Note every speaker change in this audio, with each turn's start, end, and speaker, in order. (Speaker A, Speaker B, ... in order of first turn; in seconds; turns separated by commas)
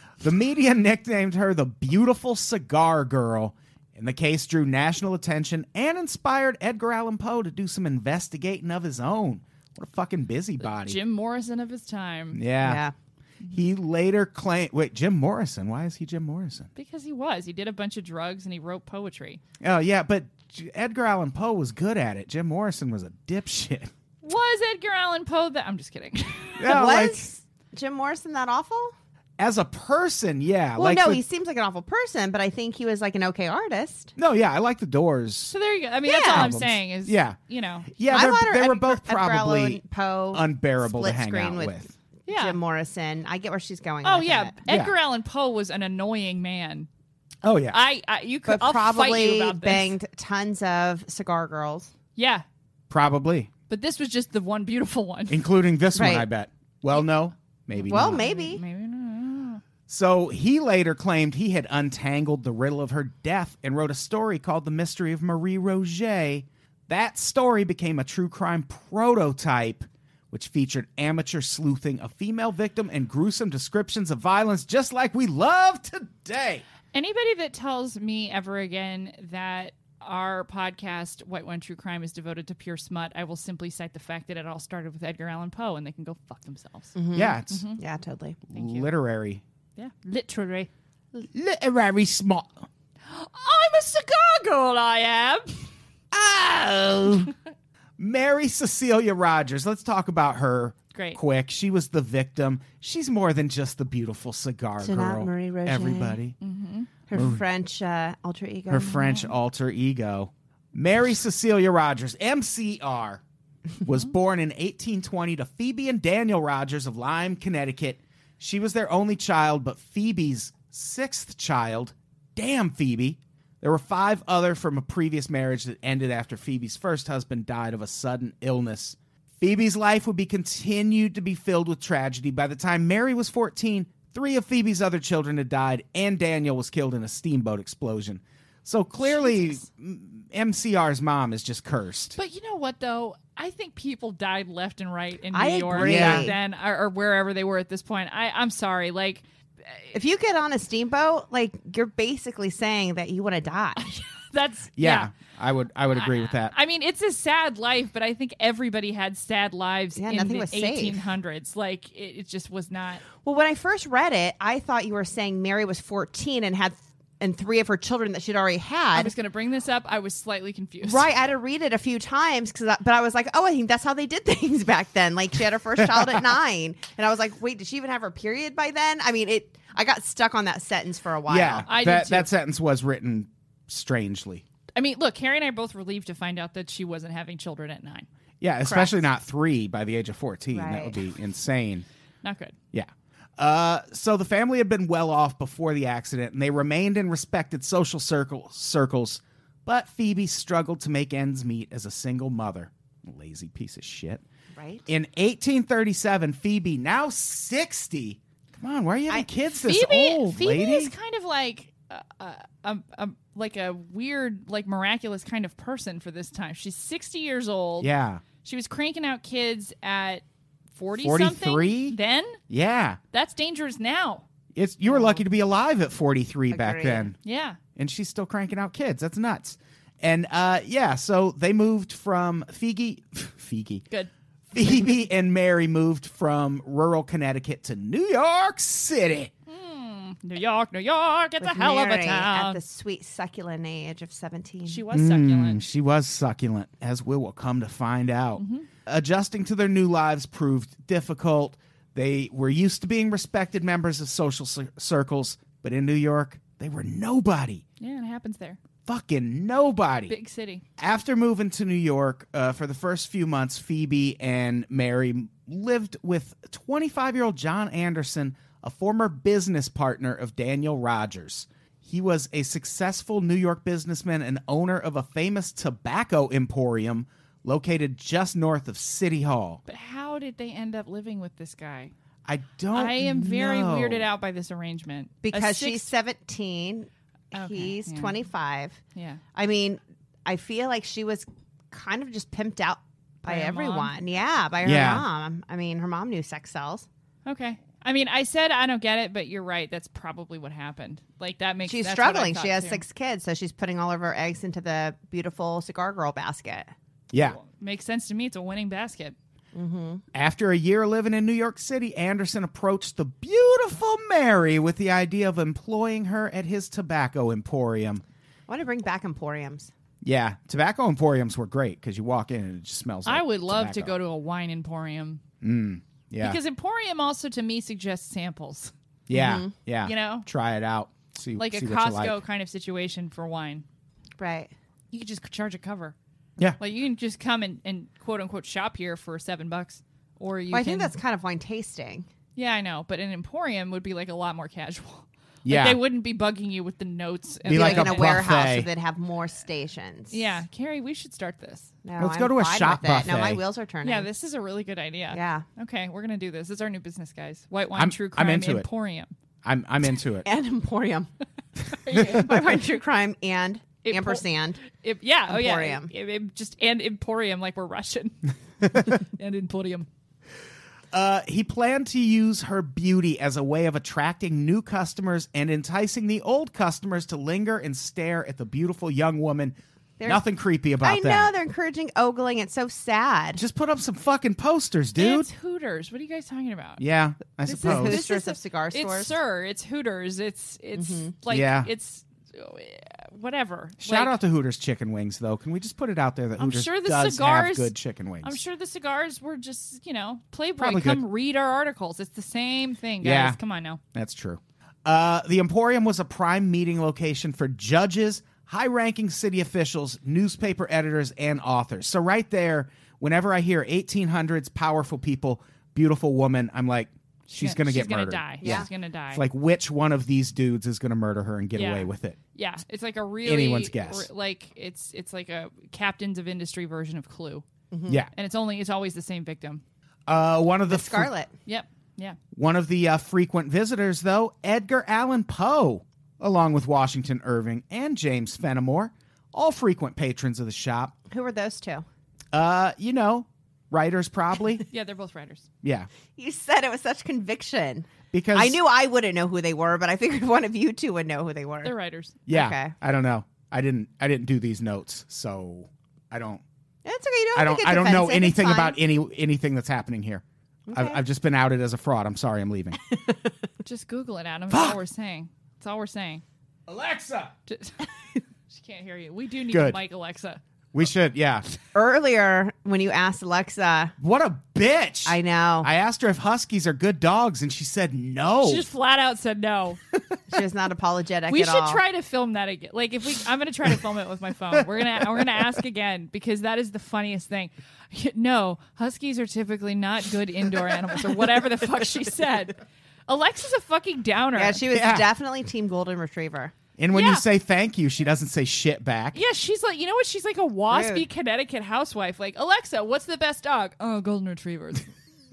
Speaker A: 0.2-11.0, Speaker B: 10.6-12.4, Speaker A: 12.3-12.8, Speaker C: 12.6-12.9, Speaker A: 13.5-16.7, Speaker B: 16.8-19.4, Speaker A: 19.6-23.9, Speaker B: 24.2-26.8, Speaker A: 26.6-27.3, Speaker C: 26.6-28.9, Speaker A: 29.4-31.2, Speaker C: 30.8-34.1, Speaker A: 34.2-35.5, Speaker B: 35.5-37.9, Speaker C: 36.1-36.5, Speaker A: 36.3-37.4, Speaker A: 37.9-39.8, Speaker C: 38.1-44.6, Speaker A: 40.3-41.9, Speaker B: 42.3-42.6, Speaker B: 44.0-46.9, Speaker A: 44.7-44.9, Speaker A: 47.4-47.8, Speaker B: 47.7-50.0, Speaker C: 48.5-51.9, Speaker B: 52.1-52.5, Speaker A: 52.9-53.5, Speaker B: 53.7-55.4, Speaker A: 55.3-58.2, Speaker C: 56.0-56.2, Speaker B: 57.8-59.6, Speaker C: 57.9-58.6, Speaker A: 59.9-76.6, Speaker B: 76.9-87.0, Speaker C: 87.0-88.4, Speaker A: 87.1-87.7, Speaker B: 87.5-87.8, Speaker A: 88.5-89.4, Speaker B: 88.5-88.9, Speaker B: 89.8-90.7, Speaker A: 91.2-92.7, Speaker B: 93.1-95.7, Speaker A: 96.1-97.3, Speaker A: 98.0-106.4, Speaker B: 100.9-101.2, Speaker C: 104.8-106.2, Speaker B: 106.4-106.9, Speaker C: 107.1-109.2, Speaker A: 107.1-107.4, Speaker A: 108.7-113.2, Speaker A: 113.8-142.2, Speaker B: 139.0-139.6, Speaker B: 142.2-149.9, Speaker C: 145.3-146.3, Speaker A: 145.8-146.3, Speaker C: 149.9-154.0, Speaker B: 153.9-155.1, Speaker A: 154.8-156.5, Speaker B: 155.9-163.0, Speaker C: 160.0-161.1, Speaker C: 163.2-169.1, Speaker B: 168.9-171.1, Speaker C: 170.8-181.7, Speaker A: 181.3-184.4, Speaker B: 181.7-182.3, Speaker B: 184.8-188.1, Speaker A: 188.4-191.9, Speaker C: 188.6-189.0, Speaker C: 190.5-191.0, Speaker B: 192.2-192.6, Speaker A: 192.7-204.2, Speaker C: 204.6-204.9, Speaker A: 204.9-210.9, Speaker B: 209.6-217.9, Speaker A: 217.8-218.2, Speaker B: 218.4-222.4, Speaker A: 221.0-222.0, Speaker A: 222.5-223.0, Speaker B: 223.1-224.2, Speaker A: 224.6-227.2, Speaker B: 224.9-225.2, Speaker C: 226.5-227.1, Speaker B: 227.2-227.6, Speaker A: 227.8-233.8, Speaker A: 234.5-239.3, Speaker B: 239.5-242.6, Speaker C: 241.4-244.8, Speaker B: 244.6-245.6, Speaker A: 244.9-257.6, Speaker B: 248.4-248.7, Speaker B: 257.8-258.6, Speaker A: 258.9-260.1, Speaker B: 260.1-260.6, Speaker A: 260.8-279.6, Speaker B: 279.7-281.9, Speaker A: 282.2-284.1, Speaker B: 282.7-285.9, Speaker C: 285.2-288.8, Speaker B: 287.3-288.2, Speaker B: 288.9-289.2, Speaker C: 289.4-296.9, Speaker B: 293.2-293.9, Speaker A: 294.6-295.1, Speaker B: 297.2-302.8, Speaker C: 301.7-306.7, Speaker A: 307.1-307.4, Speaker B: 307.1-309.1, Speaker C: 309.5-310.0, Speaker A: 310.1-318.0, Speaker C: 318.5-319.7, Speaker A: 320.0-323.9, Speaker B: 323.1-325.2, Speaker A: 325.4-326.4, Speaker B: 326.2-328.7, Speaker A: 329.1-332.2, Speaker C: 329.1-329.5, Speaker B: 329.8-330.2, Speaker B: 331.4-333.6, Speaker C: 334.2-334.5, Speaker B: 334.9-335.9, Speaker B: 336.6-340.9, Speaker C: 340.5-342.1, Speaker B: 342.4-348.2, Speaker A: 345.4-345.8, Speaker A: 347.5-348.7, Speaker C: 347.5-350.3, Speaker B: 350.1-351.7, Speaker C: 351.8-354.1, Speaker A: 352.0-353.4, Speaker B: 353.8-359.1, Speaker C: 355.1-355.5, Speaker A: 357.7-358.7, Speaker A: 359.4-360.2, Speaker C: 360.2-361.1, Speaker B: 361.7-362.6, Speaker C: 361.9-364.6, Speaker B: 363.8-369.9, Speaker C: 365.3-365.9, Speaker A: 370.9-381.3, Speaker C: 380.0-380.2, Speaker C: 380.8-383.4, Speaker A: 383.4-385.3, Speaker B: 385.0-386.8, Speaker A: 386.8-388.0, Speaker B: 387.5-394.1, Speaker C: 387.5-389.1, Speaker C: 390.8-391.1, Speaker A: 391.3-391.7, Speaker A: 393.8-398.4, Speaker B: 396.4-403.8, Speaker A: 400.6-401.0, Speaker A: 403.0-403.4, Speaker A: 403.9-422.2, Speaker B: 417.3-419.2, Speaker C: 418.4-418.7, Speaker B: 421.6-427.4, Speaker A: 423.2-424.1, Speaker C: 427.7-428.0, Speaker B: 428.1-429.6, Speaker A: 430.1-431.1, Speaker C: 430.7-431.3, Speaker B: 431.4-432.2, Speaker A: 432.3-440.9, Speaker C: 441.1-441.9, Speaker A: 442.3-444.6, Speaker B: 444.7-445.5, Speaker A: 445.6-445.9, Speaker C: 446.2-451.7, Speaker A: 448.1-448.6, Speaker B: 451.6-452.2, Speaker A: 452.3-456.4, Speaker C: 452.3-452.7, Speaker C: 456.8-458.8, Speaker A: 457.4-462.8, Speaker C: 460.7-461.0, Speaker B: 463.6-466.2, Speaker A: 464.5-464.8, Speaker A: 466.7-467.4, Speaker B: 467.5-467.9, Speaker B: 468.5-470.4, Speaker A: 469.5-469.8, Speaker A: 470.7-471.4, Speaker C: 471.7-473.9, Speaker A: 474.0-478.6, Speaker C: 475.1-475.7, Speaker B: 478.4-479.8, Speaker C: 480.3-481.8, Speaker B: 481.3-494.6, Speaker C: 494.4-496.6, Speaker A: 494.7-495.1, Speaker A: 496.8-499.2, Speaker B: 496.9-497.2, Speaker B: 499.1-504.9, Speaker C: 500.7-501.1